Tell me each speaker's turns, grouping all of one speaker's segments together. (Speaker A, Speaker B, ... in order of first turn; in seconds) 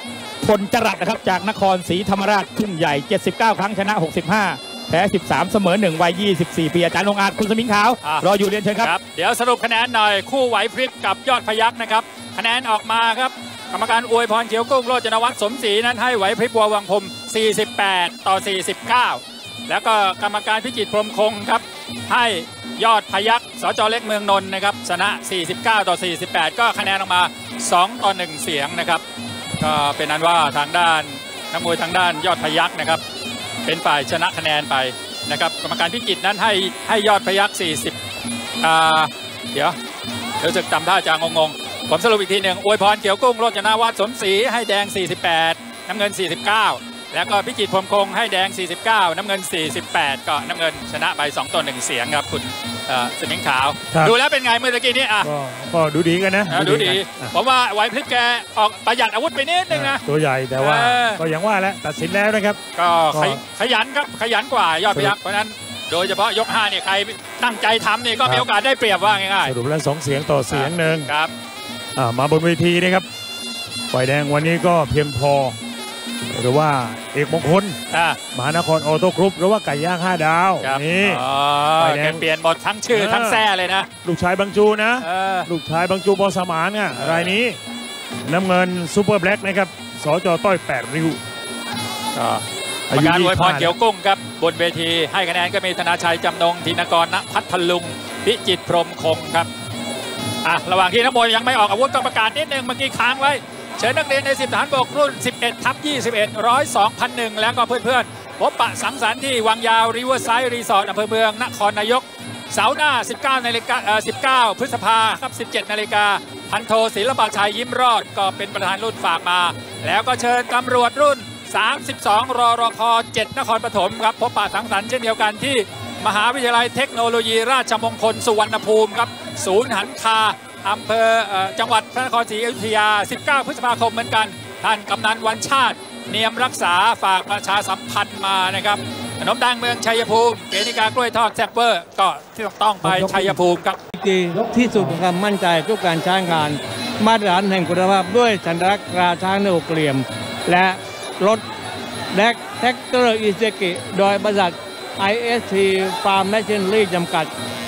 Speaker A: 0.4-8.9
Speaker B: 8.0-29.0, 29.6-33.0, 33.6-37.9, 38.6-39.8, 40.4-55.3, 56.5-60.0, 60.6-61.2, 62.7-69.5, 70.5-71.3, 77.9-78.2, 80.6-83.9, 85.0-85.5, 87.0-87.3, 92.1-99.5, 100.4-143.8
Speaker C: 55.2-57.3, 59.7-62.6, 63.1-63.4, 69.4-71.1, 72.0-73.0, 73.9-75.6, 76.3-77.8, 78.3-81.2, 81.8-82.2, 82.9-83.4, 84.0-87.6, 88.2-91.2, 92.9-93.7, 142.9-143.3
Speaker D: 144.0-151.4, 152.1-157.3